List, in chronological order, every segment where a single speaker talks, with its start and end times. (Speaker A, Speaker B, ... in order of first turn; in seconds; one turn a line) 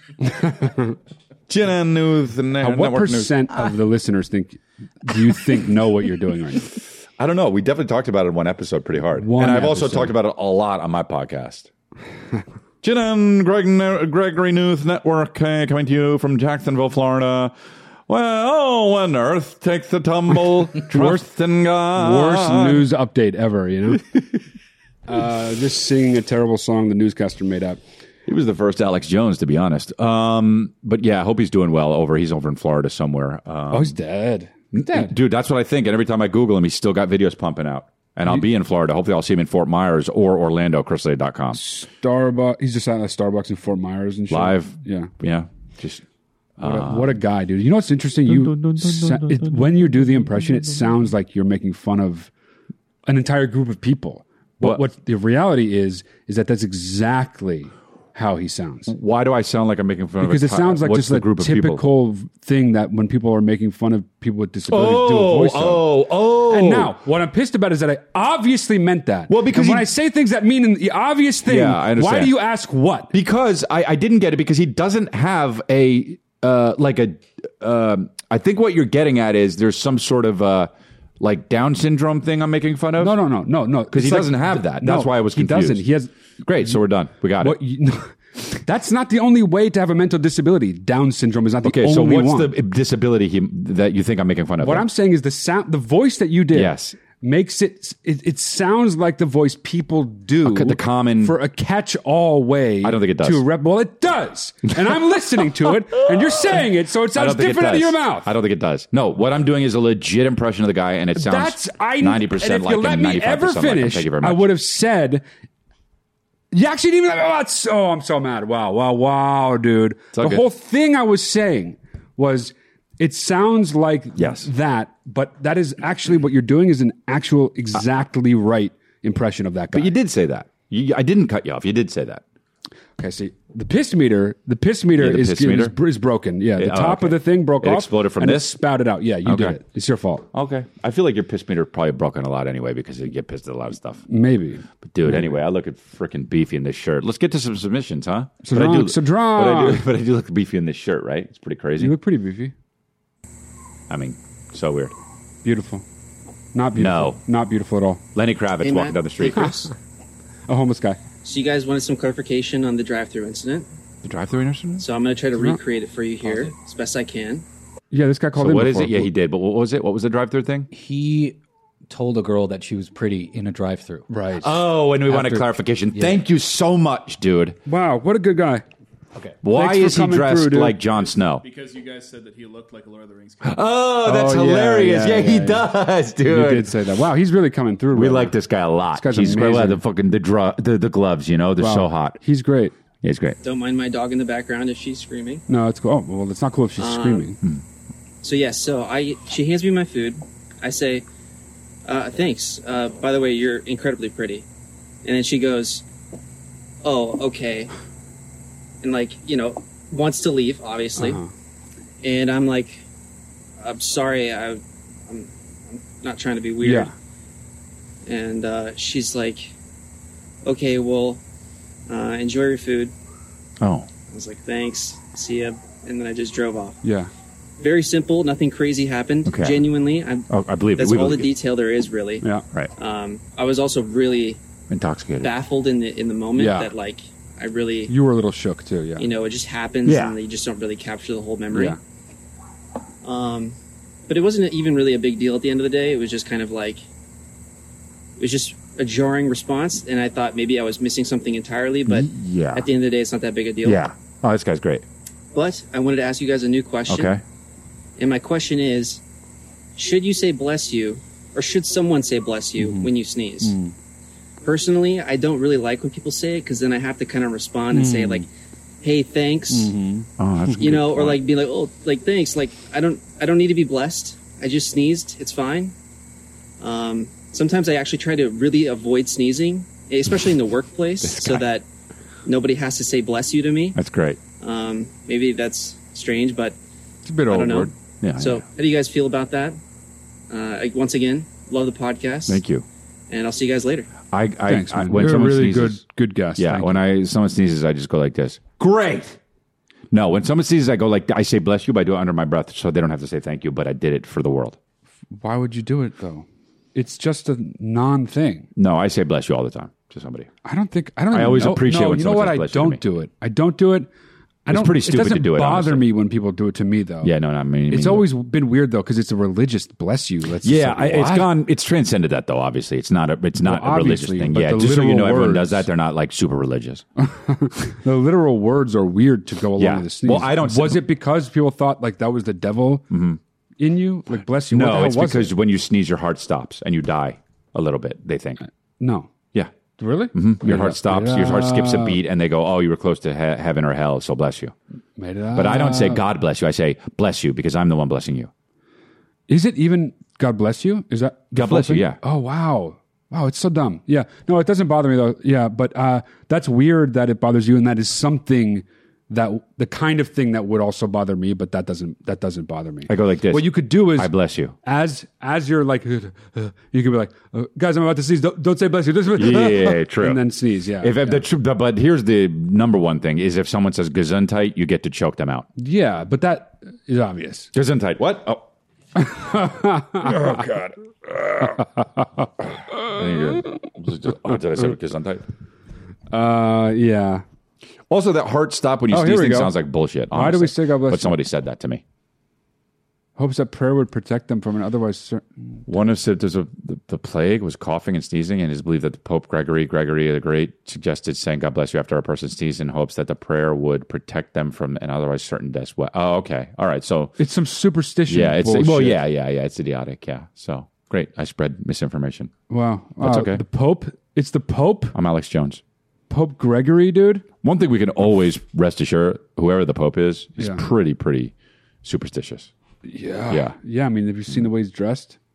Speaker A: 0.4-0.7
Speaker B: 1.5-3.4
Speaker A: 2.6-6.7
Speaker B: 7.2-11.7
Speaker A: 9.2-10.2
Speaker B: 12.8-17.5
Speaker B: 18.1-22.9
Speaker A: 20.8-21.3
Speaker A: 21.9-24.1
Speaker A: 25.1-27.8
Speaker B: 28.2-34.0
Speaker A: 33.7-35.1
Speaker B: 34.7-41.6
Speaker A: 41.5-45.1
Speaker B: 44.3-46.0
Speaker B: 46.6-47.2
Speaker A: 46.6-52.3
Speaker B: 48.2-49.9
Speaker A: 53.0-58.9
Speaker B: 54.6-54.9
Speaker B: 58.9-61.8
Speaker A: 60.2-73.1
Speaker B: 64.7-67.0
Speaker B: 69.3-69.9
Speaker B: 71.4-72.3
Speaker B: 73.1-83.2
Speaker A: 83.0-86.8
Speaker B: 83.9-85.8
Speaker B: 86.4-87.6
Speaker A: 87.4-92.5
Speaker B: 91.6-94.9
Speaker A: 94.6-108.3
Speaker B: 96.5-97.0
Speaker B: 100.4-101.3
Speaker B: 102.8-103.4
Speaker B: 106.0-106.6
Speaker B: 107.1-114.5
Speaker A: 111.1-115.2
Speaker A: 116.5-129.9
Speaker B: 120.1-120.4
Speaker B: 124.2-124.5
Speaker B: 129.7-132.2
Speaker A: 133.0-140.2
Speaker B: 134.9-135.8
Speaker B: 136.6-138.6
Speaker B: 139.2-139.6
Speaker B: 140.3-144.0
Speaker A: 144.1-145.4
Speaker B: 144.8-152.0
Speaker A: 148.4-149.9
Speaker A: 151.8-152.5
Speaker B: 153.9-154.9
Speaker A: 155.4-155.8
Speaker A: 156.5-158.0
Speaker B: 156.7-157.2
Speaker B: 158.1-159.5
Speaker C: 158.6-159.7
Speaker A: 160.5-161.0
Speaker C: 161.2-163.7
Speaker B: 164.0-164.9
Speaker C: 164.8-167.4
Speaker A: 165.3-165.6
Speaker D: 166.2-166.5
Speaker A: 167.9-169.1
Speaker B: 168.3-170.7
Speaker D: 170.7-171.4
Speaker D: 171.9-174.1
Speaker A: 174.1-174.5
Speaker B: 174.4-177.6
Speaker A: 175.1-175.4
Speaker A: 177.7-178.6
Speaker B: 179.4-181.4
Speaker A: 179.5-180.8
Speaker E: 181.1-183.7
Speaker B: 183.4-186.7
Speaker A: 184.0-185.7
Speaker A: 186.2-188.3
Speaker B: 187.9-192.2
Speaker A: 188.9-189.8
Speaker A: 191.6-192.7
Speaker B: 193.0-193.4
Speaker C: 193.4-195.4
Speaker A: 195.5-197.4
Speaker C: 196.8-197.3
Speaker C: 198.2-201.0
Speaker C: 201.8-204.4
Speaker C: 205.0-205.8
Speaker C: 206.8-207.7
Speaker C: 208.8-211.2
Speaker A: 210.9-211.3
Speaker C: 212.0-212.8
Speaker C: 213.6-216.9
Speaker A: 216.6-216.9
Speaker C: 218.1-219.5
Speaker C: 220.4-221.2
Speaker C: 221.9-222.9
Speaker B: 223.6-223.9
Speaker C: 224.1-226.8
Speaker A: 226.8-227.1
Speaker C: 227.6-232.2
Speaker B: 229.2-229.7
Speaker B: 230.3-231.3
Speaker A: 232.2-232.4
Speaker C: 232.8-234.4
Speaker B: 234.7-235.3
Speaker C: 235.2-237.9
Speaker A: 236.3-236.7
Speaker A: 237.9-239.1
Speaker C: 239.0-241.8
Speaker B: 239.8-240.2
Speaker A: 241.5-241.8
Speaker C: 243.0-243.6
Speaker C: 244.1-246.8
Speaker C: 248.2-253.8
Speaker B: 251.8-252.7
Speaker B: 253.6-254.8
Speaker C: 255.3-257.1
Speaker B: 256.9-257.2
Speaker C: 258.0-259.0
Speaker C: 259.8-263.6
Speaker A: 262.6-262.9
Speaker A: 263.4-263.7
Speaker C: 264.4-268.2
Speaker A: 267.7-268.2
Speaker C: 268.8-269.7
Speaker A: 269.5-270.6
Speaker B: 270.2-271.2
Speaker C: 270.6-275.7
Speaker C: 276.6-281.6
Speaker B: 281.0-281.5
Speaker C: 282.2-283.8
Speaker B: 283.8-284.2
Speaker C: 284.4-286.6
Speaker A: 287.1-287.7
Speaker C: 287.3-289.6
Speaker B: 287.4-288.4
Speaker C: 290.3-292.4
Speaker B: 292.3-292.6
Speaker C: 293.1-293.9
Speaker B: 294.1-295.8
Speaker A: 294.5-296.8
Speaker B: 296.4-299.2
Speaker B: 299.9-304.6
Speaker A: 305.2-308.5
Speaker B: 308.6-310.3
Speaker A: 310.4-313.9
Speaker B: 311.1-312.8
Speaker A: 314.4-317.1
Speaker B: 314.5-315.9
Speaker B: 317.0-318.1
Speaker A: 317.7-321.3
Speaker B: 320.4-326.8
Speaker A: 323.4-325.7
Speaker A: 327.0-332.9
Speaker B: 329.6-330.8
Speaker B: 332.9-333.2
Speaker A: 333.6-335.3
Speaker B: 334.4-338.4
Speaker A: 338.8-339.1
Speaker A: 339.8-342.0
Speaker B: 340.1-344.5
Speaker A: 345.0-346.0
Speaker B: 345.3-348.3
Speaker A: 349.3-364.1
Speaker B: 351.3-352.0
Speaker B: 362.9-364.5
Speaker A: 364.6-371.2
Speaker B: 369.1-375.5
Speaker A: 375.6-377.5
Speaker B: 377.5-378.4
Speaker A: 379.0-380.4
Speaker B: 380.0-381.7
Speaker B: 382.7-385.2
Speaker A: 386.1-387.2
Speaker B: 387.9-391.8
Speaker A: 388.9-389.5
Speaker A: 390.1-391.2
Speaker A: 393.2-395.2
Speaker B: 395.7-407.1
Speaker A: 407.2-409.0
Speaker B: 408.1-412.3
Speaker A: 412.5-414.9
Speaker B: 413.0-413.4
Speaker B: 414.9-415.6
Speaker A: 416.1-417.2
Speaker B: 417.4-422.5
Speaker A: 420.4-420.6
Speaker A: 422.8-425.2
Speaker B: 423.3-423.5